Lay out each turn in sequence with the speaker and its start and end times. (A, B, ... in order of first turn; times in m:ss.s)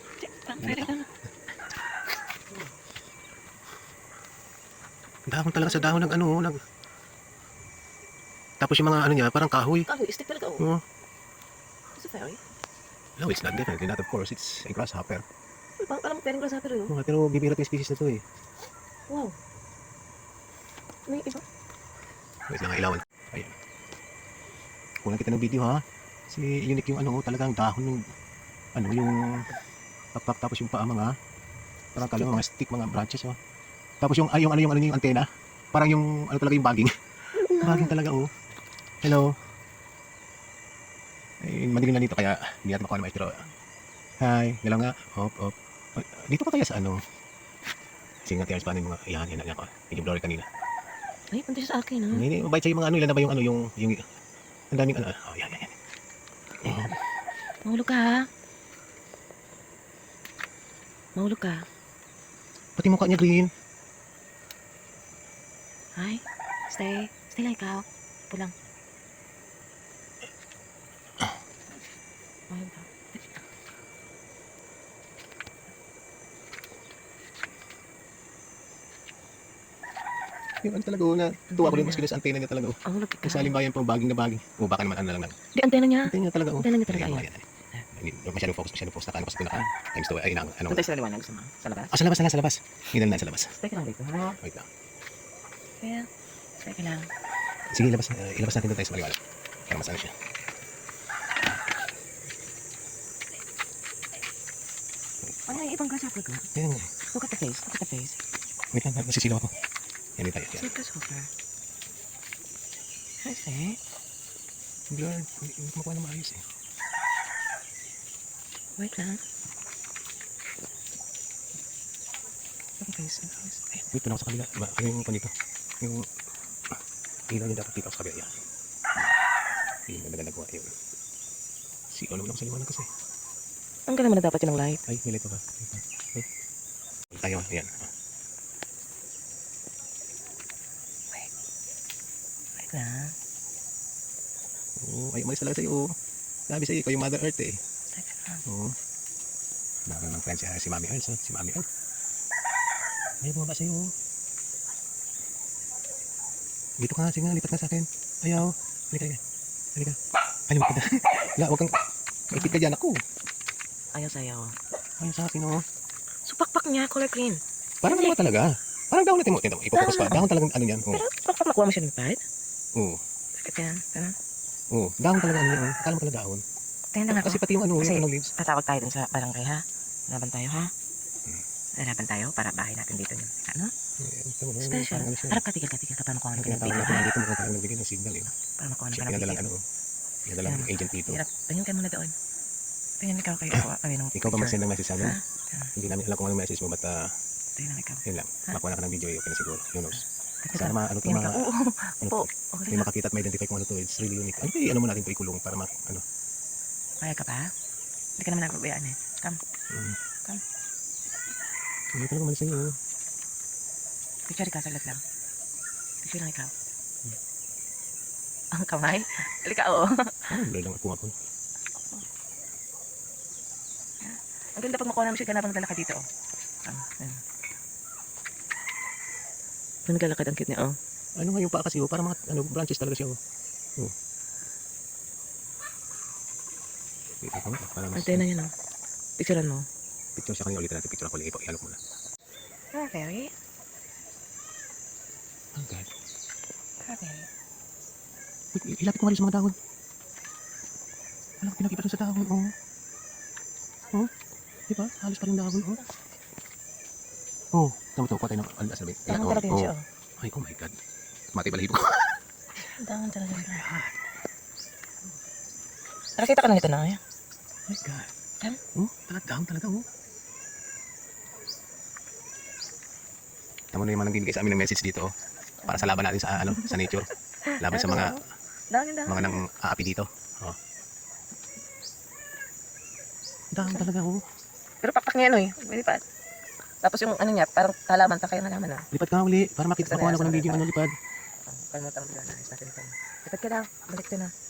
0:00.2-0:01.1 A
0:00.6-0:00.9 B
0:05.3-0:06.6 B
0:05.5-0:06.2 A
0:08.6-0:09.9 B
0:09.9-0:10.7 A
0:12.0-0:12.4 A
0:13.2-0:15.2 B
0:15.8-0:16.9 A
0:16.9-0:18.2 B
0:19.1-0:19.4 A
0:21.1-0:21.4 A
0:22.5-0:23.5 B
0:25.0-0:28.0 B
0:28.8-0:29.5 B
0:30.1-0:31.1 B
0:31.9-0:33.4 B
0:34.0-0:38.3 B
0:37.4-0:37.9 A
0:39.0-0:39.3 B
0:41.4-0:43.4 B
0:44.2-0:47.0 B
0:48.2-0:50.4 B
0:51.3-0:52.2 A
0:52.1-0:54.0 B
0:54.7-0:55.7 B
0:56.6-0:56.9 B
0:57.6-0:58.2 A
1:01.2-1:01.6 A
1:02.8-1:03.5 B
1:06.0-1:08.5 A
1:12.5-1:13.2 A
1:20.6-1:25.4 B
1:21.5-1:22.1 A
1:22.8-1:23.6 A
1:25.5-1:27.8 A
1:26.0-1:30.9 B
1:30.7-1:32.0 A
1:31.9-1:33.5 B
1:33.5-1:34.4 A
1:34.4-1:34.6 B
1:35.8-1:36.1 A
1:36.6-1:37.1 A
1:37.7-1:40.1 B
1:45.2-1:45.6 B
1:45.5-1:46.5 A
1:46.5-1:46.9 B
1:47.1-1:48.2 A
1:48.7-1:49.5 B
1:50.2-1:50.7 B
1:50.6-1:51.3 A
1:53.2-1:53.8 A
1:54.9-1:56.4 B
1:58.8-1:59.2 A
2:02.8-2:03.5 A
2:03.2-2:06.1 B
2:07.3-2:08.3 B
2:09.9-2:10.7 B
2:11.9-2:12.9 B
2:13.9-2:14.8 A
2:14.9-2:16.2 B
2:17.1-2:17.9 B
2:22.6-2:23.1 A
2:24.8-2:25.9 B
2:26.5-2:27.6 B
2:27.9-2:28.4 A
2:28.4-2:28.7 B
2:29.9-2:31.6 B
2:33.2-2:33.9 B
2:36.8-2:39.2 B
2:40.5-2:41.7 B
2:42.3-2:43.0 B
2:43.9-2:44.5 A
2:45.0-2:45.6 B
2:46.3-2:48.2 A
2:47.8-2:51.0 B
2:49.8-2:50.3 A
2:50.9-2:52.2 A
2:53.4-2:54.1 A
2:54.7-2:56.4 B
2:56.9-3:00.7 A
2:57.1-2:58.3 B
3:01.8-3:03.7 A
3:04.0-3:05.4 B
3:04.6-3:07.1 A
3:06.4-3:08.3 B
3:08.4-3:09.5 A
3:08.9-3:09.6 B
3:10.3-3:11.2 B
3:10.4-3:12.1 A
3:13.0-3:15.7 A
3:13.5-3:15.2 B
3:15.8-3:17.1 B
3:17.6-3:18.6 A
3:18.0-3:21.4 B
3:20.0-3:22.9 A
3:22.0-3:26.0 B
3:27.0-3:27.5 A
3:28.2-3:29.4 A
3:29.7-3:30.0 B
3:31.9-3:32.7 B
3:34.3-3:35.0 A
3:36.0-3:36.5 A
3:38.5-3:40.4 A
3:40.3-3:41.1 B
3:44.0-3:46.0 A
3:46.6-3:47.2 A
3:49.8-3:50.8 A
3:51.2-3:53.2 B
3:57.2-3:58.3 B
3:57.9-3:58.5 A
3:59.2-3:59.6 A
4:00.2-4:01.8 B
4:02.7-4:03.3 A
4:05.6-4:05.8 B
4:06.8-4:07.3 A
4:08.5-4:09.5 B
4:11.4-4:12.5 B
4:14.7-4:15.8 B
4:17.5-4:20.7 B
4:19.1-4:19.8 A
4:21.3-4:22.2 B
4:22.7-4:23.7 A
4:23.3-4:23.9 B
4:26.2-4:27.0 A
4:27.7-4:28.1 B
4:28.7-4:29.8 B
4:33.7-4:35.1 B
4:35.6-4:38.2 A
4:35.7-4:38.3 B
4:38.7-4:39.4 A
4:39.0-4:40.6 B
4:43.5-4:44.2 B
4:43.6-4:43.9 A
4:44.8-4:46.0 A
4:46.8-4:48.9 A
4:48.9-4:50.9 B
4:49.8-4:50.6 A
4:51.5-4:54.3 A